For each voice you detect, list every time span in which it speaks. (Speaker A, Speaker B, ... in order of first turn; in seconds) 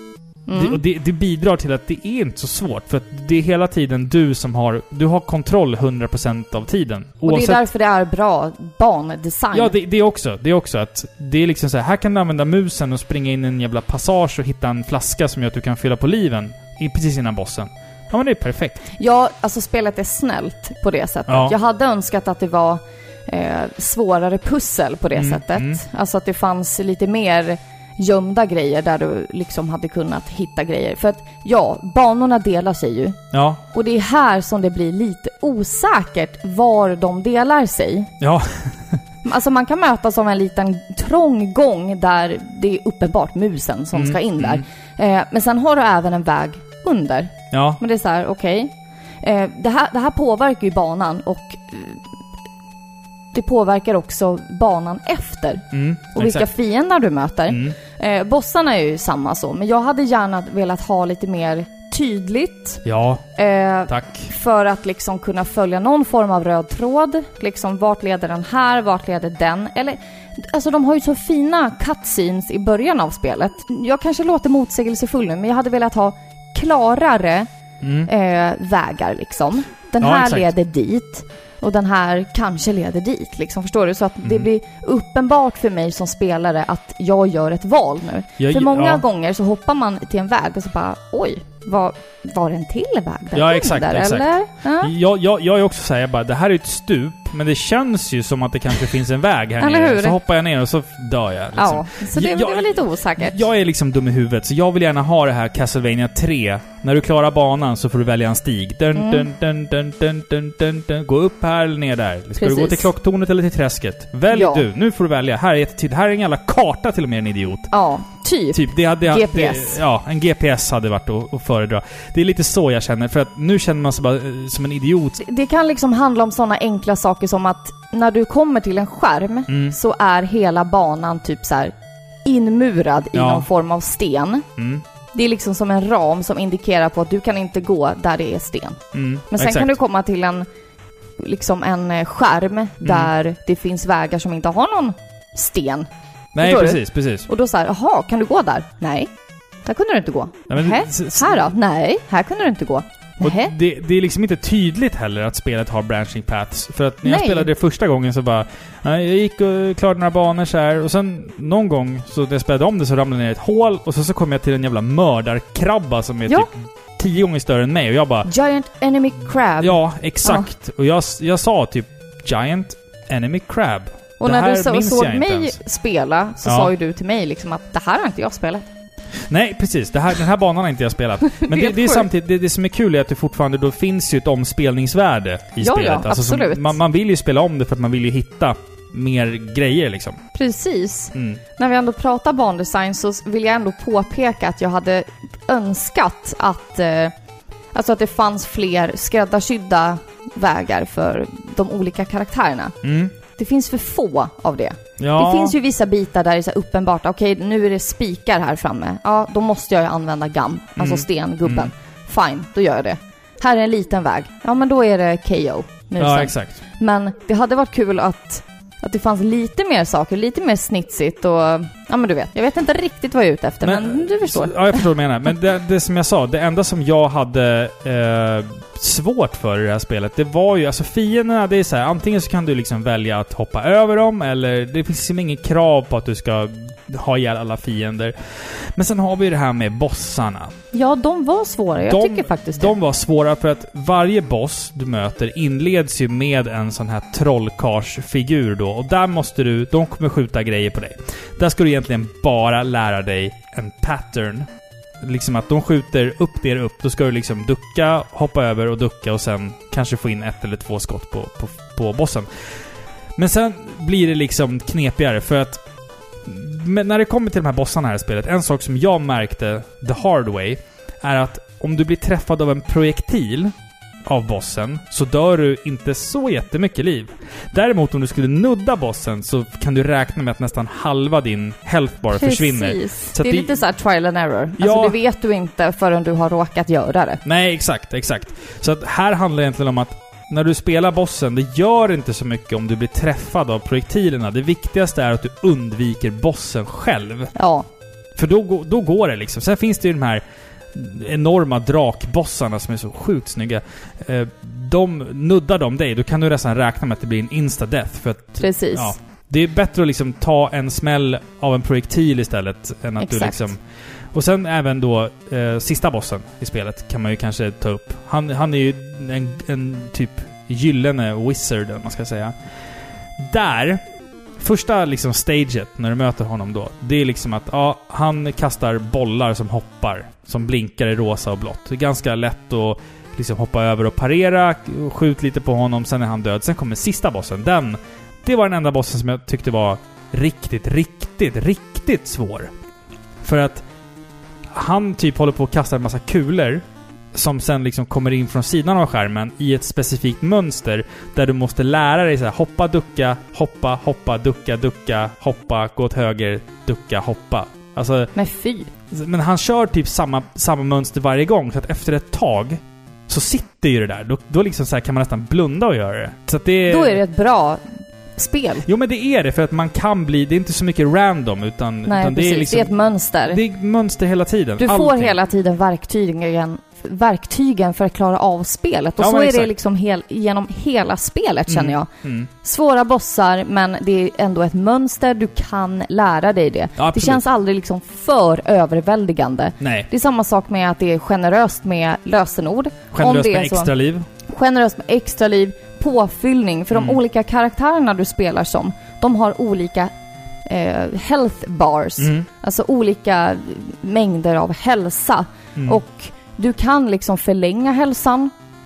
Speaker A: 0.5-0.8, 7.2-9.7, 19.0-33.2, 33.7-38.1, 39.2-52.0, 53.3-55.6, 56.1-62.8, 63.4-77.5, 78.1-94.9, 99.6-100.2, 101.5-103.4, 108.9-109.3, 112.4-112.9, 114.3-114.7, 117.7-119.8, 125.2-134.4, 135.1-140.5, 141.2-145.9, 146.4-149.1, 149.6-153.5, 157.0-157.5, 168.2-170.5, 174.2-178.7, 181.4-182.1, 185.6-186.8, 190.3-197.1, 197.7-202.8, 203.3-224.8, 240.7-242.8, 282.1-287.2, 297.3-297.7, 308.4-308.9, 313.0-313.5, 358.1-358.7, 366.7-367.6, 368.1-368.6, 371.9-373.4, 374.6-381.9, 382.4-393.7, 394.3-399.9, 400.4-408.3
Speaker B: 0.5-7.6, 9.5-18.9, 21.3-21.5, 25.1-25.8, 33.3-33.6, 38.2-38.8, 43.9-44.6, 47.5-47.8, 55.7-56.5, 57.5-57.8, 62.8-63.2, 63.9-64.3, 77.8-78.1, 80.0-80.5, 84.2-84.5, 88.4-89.0, 93.3-117.7, 118.5-125.2, 129.5-129.8, 133.1-133.5, 134.6-134.8, 138.9-139.8, 142.8-143.1, 146.3-147.3, 150.5-151.5, 153.2-168.3, 169.6-175.6, 176.4-176.7, 179.3-190.2, 191.1-191.4, 202.8-203.1, 205.0-205.5, 210.8-211.7, 216.0-216.6, 223.6-240.5, 241.8-254.5, 255.0-262.3, 263.2-265.6, 266.2-273.5, 274.1-283.5, 284.6-285.0, 287.2-297.3, 298.1-300.2, 300.7-313.6, 314.1-322.3, 323.2-323.8, 324.4-342.5, 343.2-343.6, 344.5-358.1, 358.9-367.0, 368.6-372.7, 373.2-375.1, 379.0-379.5, 381.5-382.3, 386.8-387.2, 389.6-389.9, 392.9-394.1, 396.7-397.0, 402.0-402.3, 405.6-405.8